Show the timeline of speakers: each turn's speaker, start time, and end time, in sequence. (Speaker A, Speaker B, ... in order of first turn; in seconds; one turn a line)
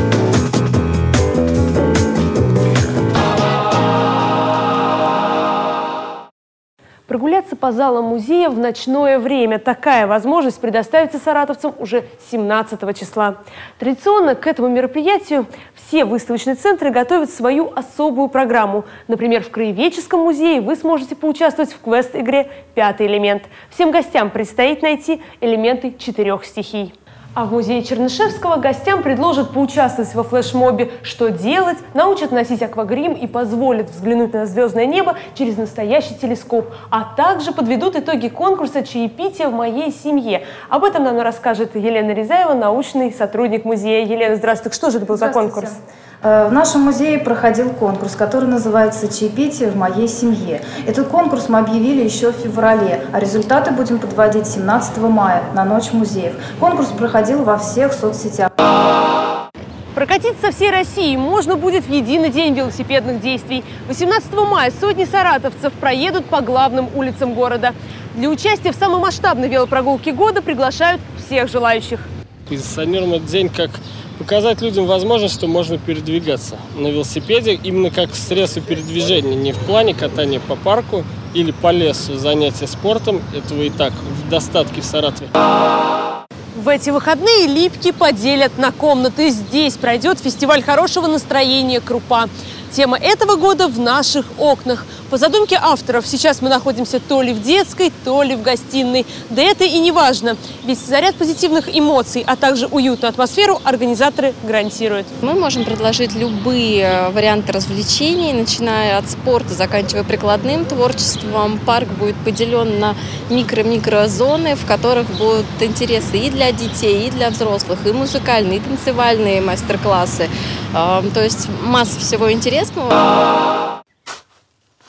Speaker A: 7.1-45.8
Speaker B: 45.1-58.5
Speaker A: 60.0-72.1
Speaker C: 72.5-85.3
Speaker A: 86.5-105.1
Speaker D: 105.2-123.0